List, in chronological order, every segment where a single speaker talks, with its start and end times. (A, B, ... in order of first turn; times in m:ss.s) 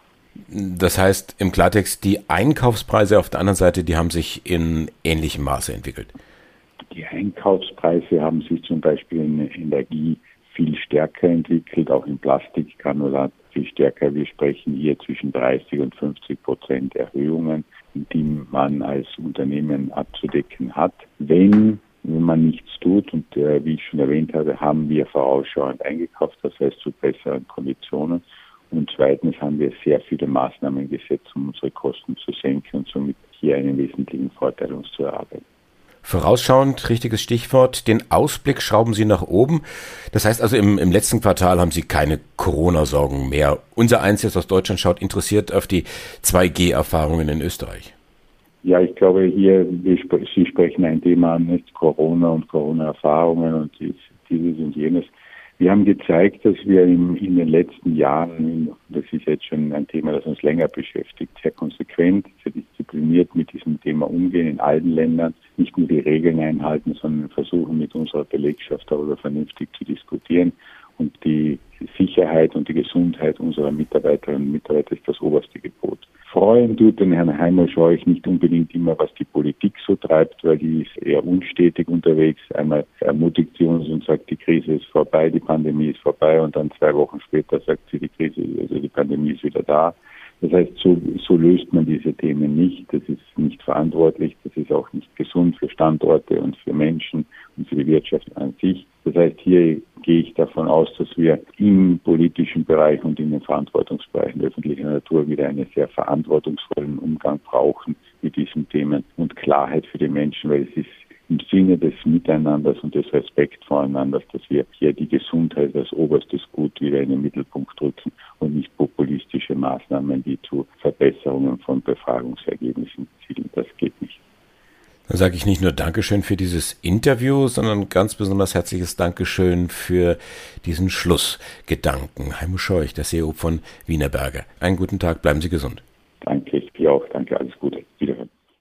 0:00.5-0:06.1 A
0:06.9-0:35.4 B
0:36.0-0:47.9 A
0:48.6-2:04.2 B
2:05.1-2:15.8 A
2:16.2-2:18.3 B